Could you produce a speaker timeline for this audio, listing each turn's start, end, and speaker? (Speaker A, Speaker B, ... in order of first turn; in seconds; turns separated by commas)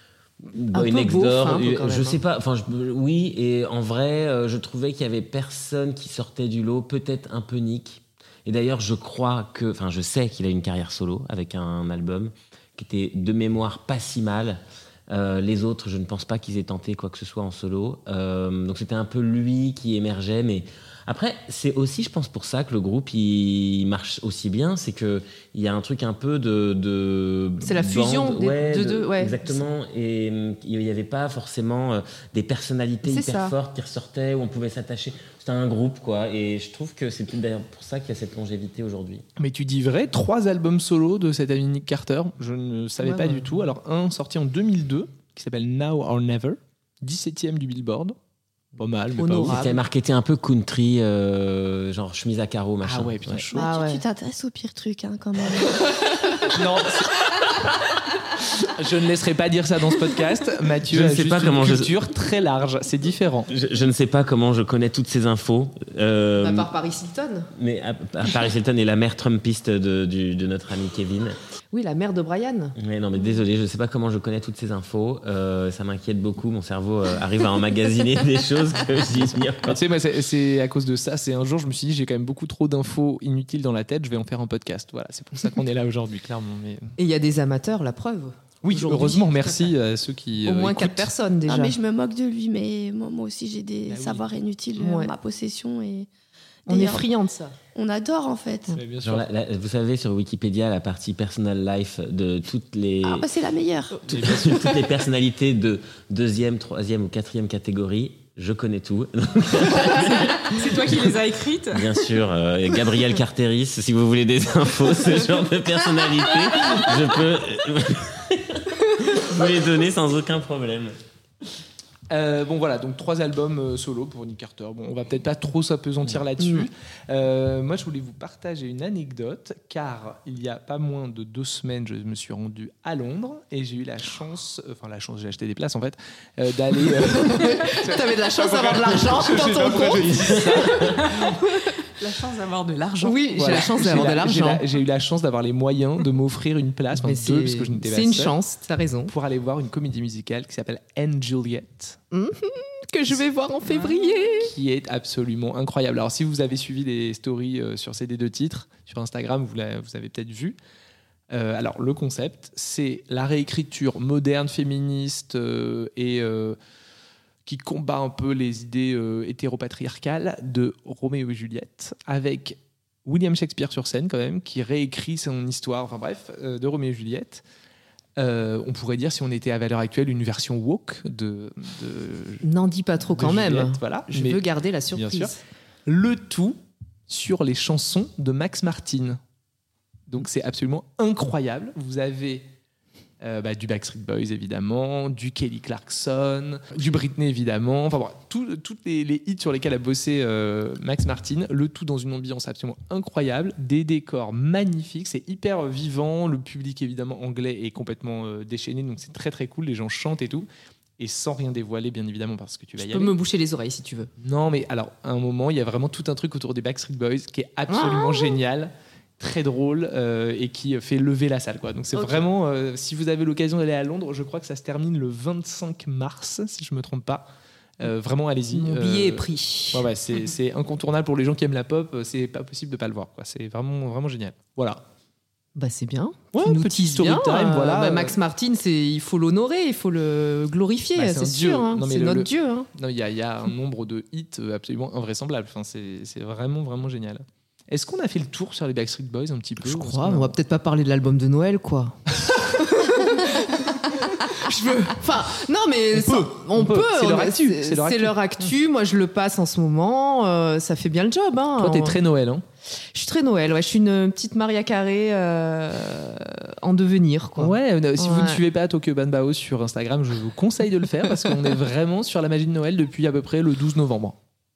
Speaker A: 0.4-39.2, Speaker B: 0.7-2.2, Speaker B: 27.6-29.6, Speaker B: 33.0-33.5, Speaker C: 39.4-48.1, Speaker B: 43.0-43.5, Speaker C: 48.8-49.6, Speaker B: 49.1-49.8, Speaker A: 49.5-53.4, Speaker C: 52.8-53.7, Speaker B: 53.5-54.0, Speaker D: 53.5-56.5, Speaker C: 56.5-57.2, Speaker C: 58.6-63.5, Speaker A: 60.9-62.0, Speaker A: 63.5-66.7, Speaker B: 66.4-67.5, Speaker A: 67.5-71.4, Speaker B: 71.7-72.8, Speaker A: 72.8-79.8, Speaker C: 79.6-86.9, Speaker B: 87.0-89.7, Speaker C: 88.6-91.1, Speaker B: 90.4-91.8, Speaker D: 91.5-96.1, Speaker C: 93.9-94.2, Speaker B: 94.8-95.1, Speaker D: 96.7-97.0, Speaker B: 96.7-97.5, Speaker D: 97.7-98.8, Speaker C: 98.7-99.3, Speaker A: 99.0-103.3, Speaker D: 103.0-104.0, Speaker A: 104.1-110.9, Speaker C: 104.1-104.6, Speaker E: 110.3-111.9, Speaker A: 111.7-120.9, Speaker C: 122.1-141.0, Speaker B: 126.4-126.7, Speaker B: 137.1-141.7, Speaker E: 140.7-143.8, Speaker B: 143.0-144.7, Speaker C: 143.3-148.3, Speaker B: 146.9-149.1, Speaker C: 149.1-152.0, Speaker B: 152.1-154.5, Speaker C: 154.4-160.6, Speaker C: 161.3-166.6, Speaker C: 167.4-177.4, Speaker C: 178.2-182.4, Speaker B: 182.4-185.4, Speaker C: 183.1-185.3, Speaker C: 185.8-186.6, Speaker C: 187.1-189.2, Speaker C: 190.1-192.4, Speaker C: 193.2-210.5, Speaker C: 211.0-213.1, Speaker B: 212.8-214.1, Speaker C: 214.2-227.3, Speaker B: 217.7-218.3, Speaker B: 221.9-222.2, Speaker C: 227.8-234.8, Speaker B: 228.5-229.9, Speaker B: 235.6-242.7, Speaker C: 236.3-238.2, Speaker C: 240.9-250.3, Speaker B: 249.6-262.0, Speaker C: 255.9-258.2, Speaker C: 261.6-262.4, Speaker B: 262.9-268.4, Speaker C: 267.4-274.1